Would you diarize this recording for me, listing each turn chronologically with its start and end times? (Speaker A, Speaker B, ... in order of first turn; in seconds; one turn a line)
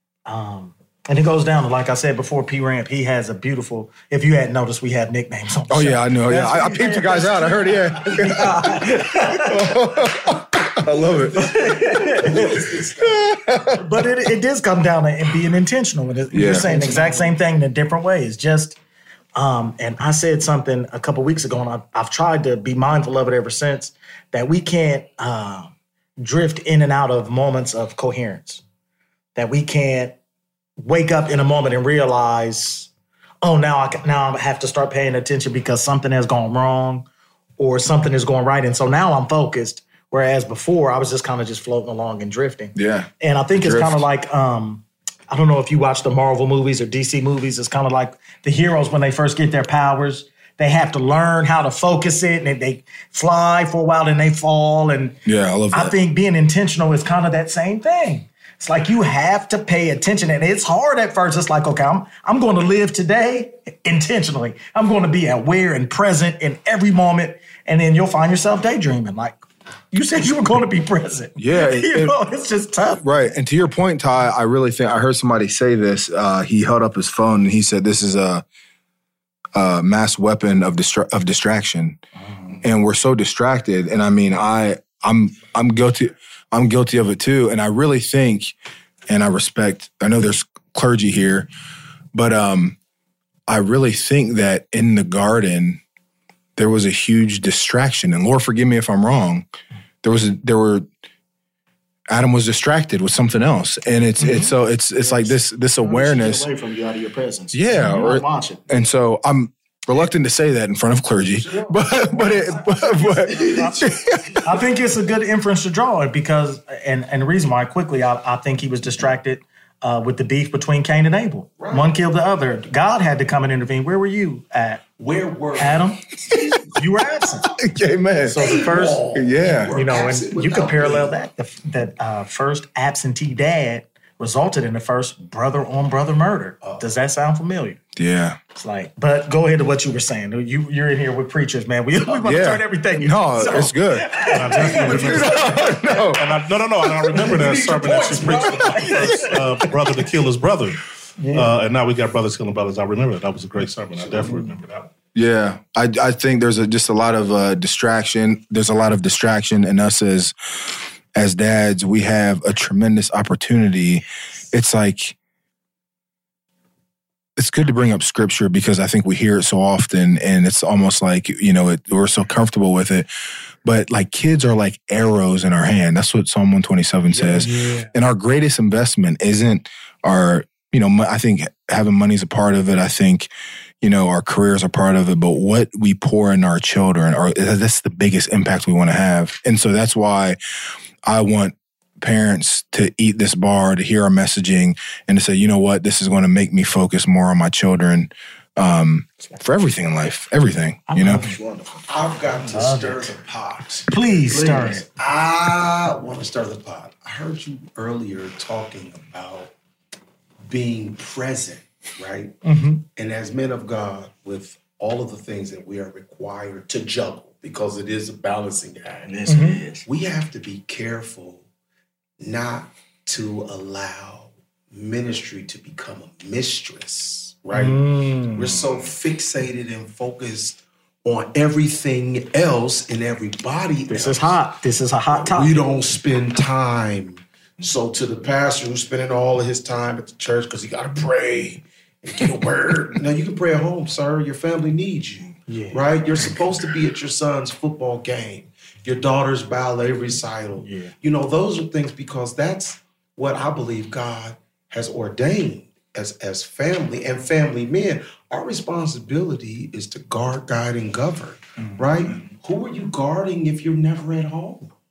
Speaker A: 0.3-9.9
Speaker B: 5.7-11.7
Speaker A: 11.3-12.7
Speaker C: 11.9-13.3
Speaker B: 13.0-13.8
Speaker A: 13.7-18.8
Speaker B: 16.3-16.7
Speaker C: 16.6-17.3
Speaker A: 19.4-28.6
Speaker A: 29.4-30.2
Speaker A: 30.8-32.9
Speaker A: 33.4-37.1
Speaker A: 37.6-55.2
Speaker B: 42.8-44.0
Speaker B: 55.2-55.9
Speaker A: 55.7-69.4
Speaker A: 69.9-73.3
Speaker B: 71.4-72.2
Speaker B: 73.0-78.4
Speaker B: 79.5-82.0
Speaker A: 82.3-82.6
Speaker B: 82.6-88.5
Speaker B: 89.1-91.5
Speaker B: 92.1-92.8
Speaker B: 93.5-95.8
Speaker B: 96.6-99.5
Speaker B: 100.0-100.9
Speaker B: 102.1-106.5
Speaker A: 104.2-104.5
Speaker D: 105.0-108.7
Speaker B: 107.5-114.4
Speaker C: 111.3-111.8
Speaker A: 112.5-113.9
Speaker D: 113.5-113.8
Speaker A: 114.4-124.8
Speaker C: 121.6-121.9
Speaker C: 125.0-126.7
Speaker A: 125.6-126.0
Speaker A: 126.7-127.5
Speaker B: 127.5-128.4
Speaker A: 128.3-137.8
Speaker C: 128.3-131.1
Speaker B: 129.1-129.7
Speaker B: 138.0-138.4
Speaker A: 138.6-146.1
Speaker B: 142.2-146.2
Speaker E: 144.3-154.9
Speaker A: 147.1-149.7
Speaker C: 147.9-148.5
Speaker A: 151.2-151.5
Speaker C: 154.0-154.5
Speaker B: 155.2-165.2
Speaker B: 167.4-173.1
Speaker B: 173.6-183.3
Speaker A: 177.2-177.9
Speaker B: 183.8-190.4
Speaker B: 191.1-201.2
Speaker A: 200.9-201.4
Speaker D: 201.2-201.8
Speaker C: 201.9-209.5
Speaker A: 202.5-203.1
Speaker A: 203.9-204.8
Speaker C: 210.5-212.4
Speaker A: 212.4-212.8
Speaker C: 212.9-219.3
Speaker D: 219.1-219.9
Speaker A: 219.3-219.6
Speaker C: 219.8-221.4
Speaker C: 222.2-234.4
Speaker A: 227.5-228.6
Speaker A: 233.9-235.6
Speaker C: 235.1-264.7
Speaker A: 245.5-245.8
Speaker A: 250.6-250.9
Speaker A: 261.6-261.9